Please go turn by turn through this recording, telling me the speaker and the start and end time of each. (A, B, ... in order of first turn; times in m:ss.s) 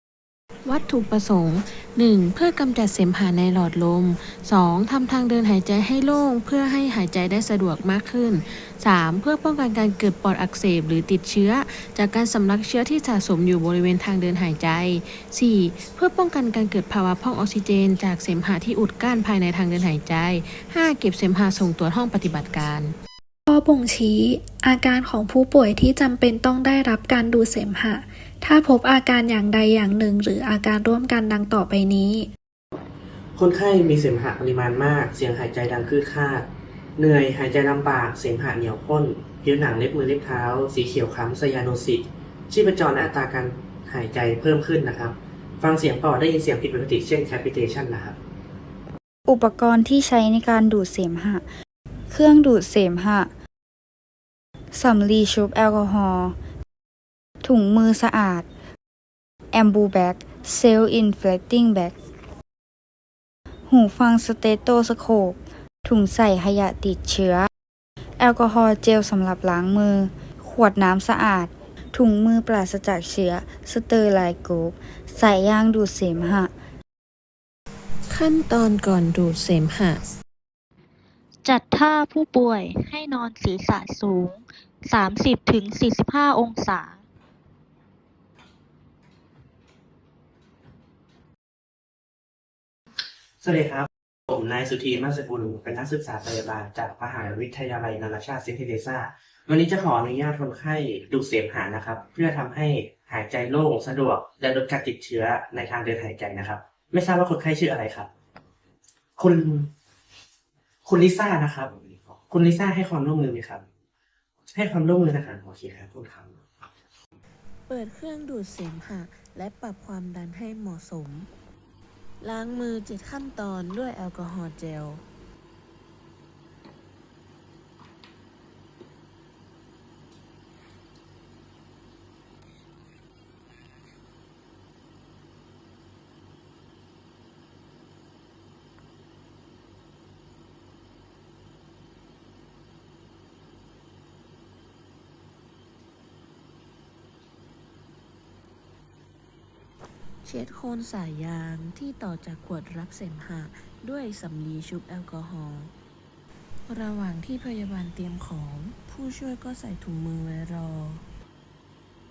0:00.6-0:22.9 A
0:23.5-0:32.3 B
0:33.4-0:36.5 C
0:37.0-0:48.2 C
0:49.3-0:51.5 D
0:52.1-0:53.3 D
0:54.7-0:56.4 D
0:57.4-0:58.5 D
0:59.5-1:02.0 D
1:03.7-1:07.5 D
1:08.2-1:16.5 D
1:18.1-1:20.0 A
1:21.4-1:27.0 E
1:33.4-1:48.1 C
1:49.2-1:49.7 C
1:50.8-1:51.8 C
1:52.3-1:53.6 C
1:54.5-1:56.4 C
1:57.7-2:01.3 A
2:02.2-2:05.0 A
2:30.2-2:35.7 A
2:36.7-2:41.0 A